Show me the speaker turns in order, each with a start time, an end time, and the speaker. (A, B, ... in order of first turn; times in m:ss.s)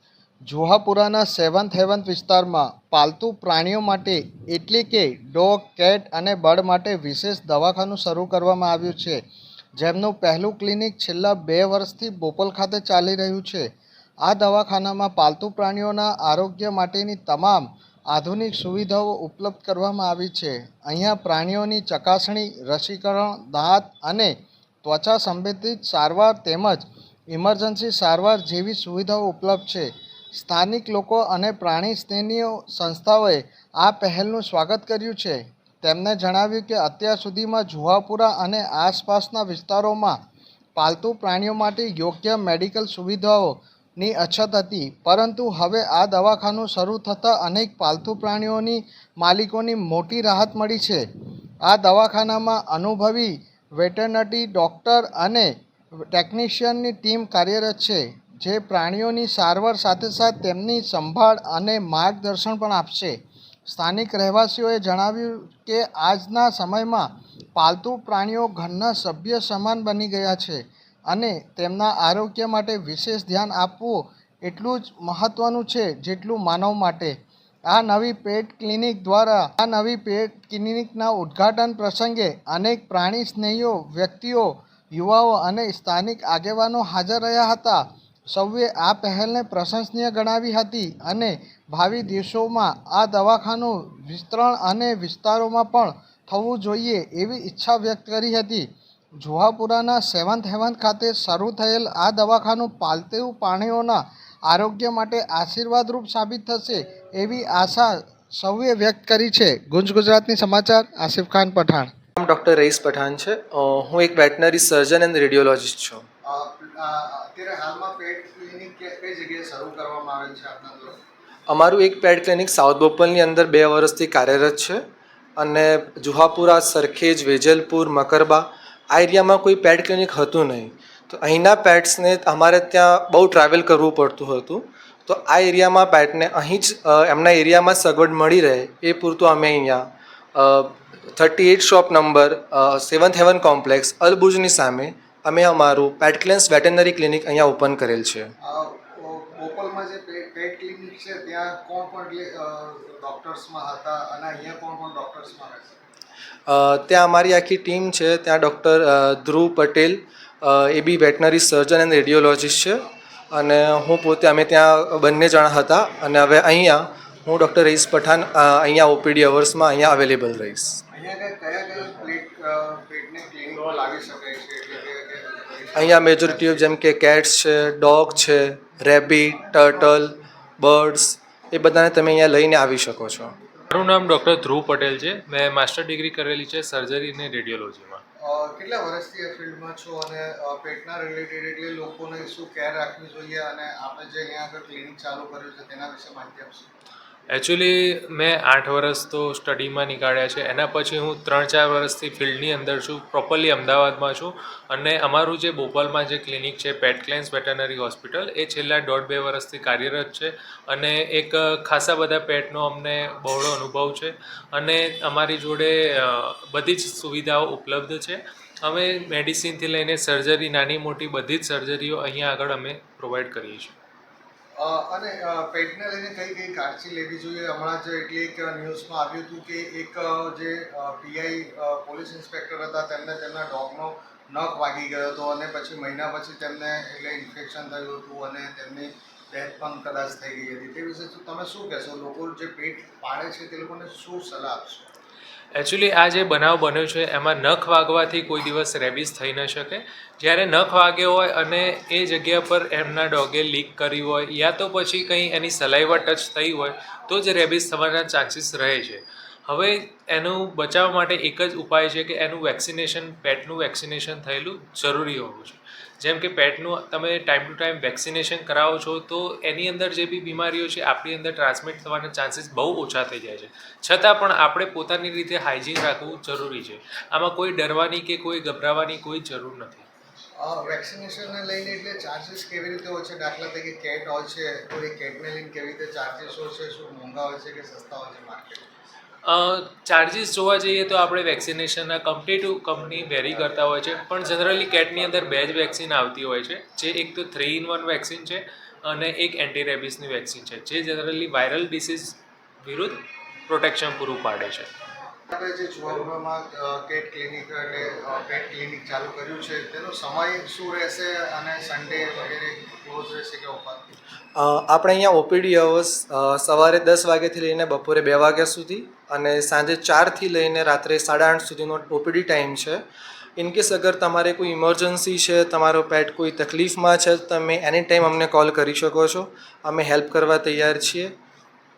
0:00.5-0:09.2 A
0:09.8-0:13.6 A
0:14.2-0:24.3 A
0:24.8-0:40.2 A
0:40.8-0:51.0 A
0:51.6-0:55.5 A
0:56.1-1:03.1 A
1:03.7-1:07.0 A
1:07.6-1:17.1 A
1:17.7-1:38.7 A
1:39.2-1:51.9 A
1:52.2-1:56.0 B
1:56.3-2:01.0 A
2:01.5-2:04.8 B
2:05.4-2:28.3 B
2:28.4-2:35.7 A
2:36.5-2:50.8 B
2:50.9-2:56.5 A
2:55.7-3:03.3 B
3:03.7-3:08.0 C
3:08.2-3:16.6 A
3:17.3-3:43.7 C
3:44.6-4:04.8 A
4:05.5-4:39.9 C
4:40.4-4:48.6 A
4:49.2-5:04.7 C
5:05.3-5:13.8 A
5:14.3-5:22.8 B
5:23.4-5:31.1 B